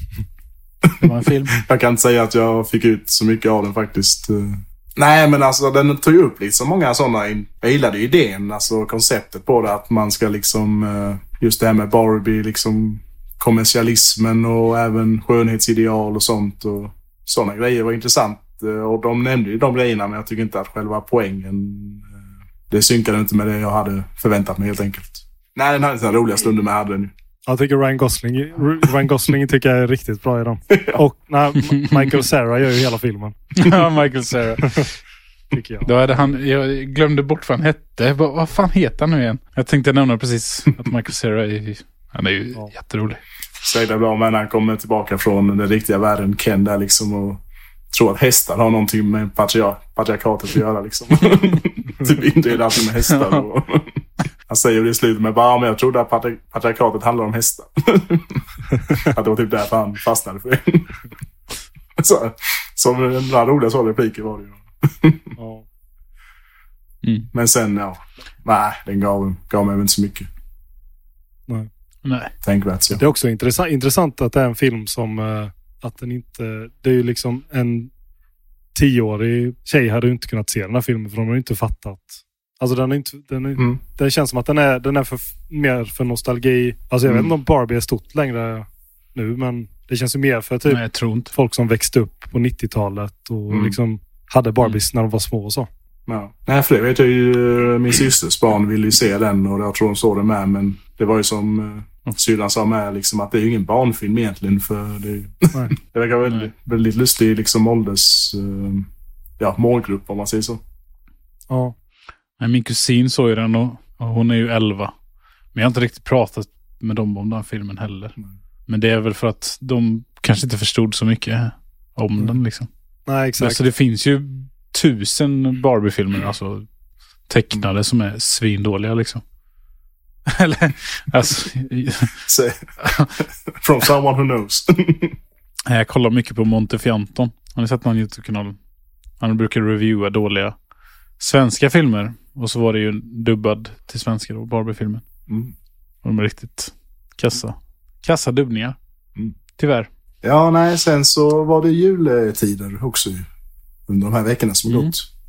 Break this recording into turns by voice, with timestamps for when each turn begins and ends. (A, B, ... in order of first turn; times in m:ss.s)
0:00.8-0:27.1 A
0:01.0-0:01.6 B
0:27.5-0:33.4 C
0:30.7-0:31.0 A
0:33.6-0:34.9 B
0:35.5-0:35.9 C
0:35.8-0:43.2 B
0:43.6-1:01.0 A
1:02.0-1:05.3 A
1:05.4-1:05.6 C
1:07.0-1:07.3 B
1:07.3-1:10.3 A
1:12.0-1:12.3 B
1:12.4-1:13.0 A
1:12.9-1:17.9 C
1:18.7-1:30.8 C
1:30.7-1:31.3 B
1:31.3-1:35.7 C
1:33.5-1:33.8 A
1:36.1-1:48.9 A
1:49.4-1:50.6 A
1:51.5-1:51.7 C
1:52.4-1:54.9 B
1:55.5-1:58.2 B
1:58.7-2:02.7 B
2:03.1-2:03.6 C
2:03.4-2:06.6 B
2:07.3-2:09.2 B
2:10.3-2:12.1 B
2:12.2-2:12.6 A
2:12.8-2:13.1 B
2:13.6-2:15.2 A
2:15.7-2:18.6 B
2:19.2-2:20.5 B
2:21.2-2:25.0 B
2:25.3-2:25.5 A
2:26.0-2:28.8 B
2:29.6-2:29.9 B
2:30.2-2:33.3 A
2:33.9-2:35.1 A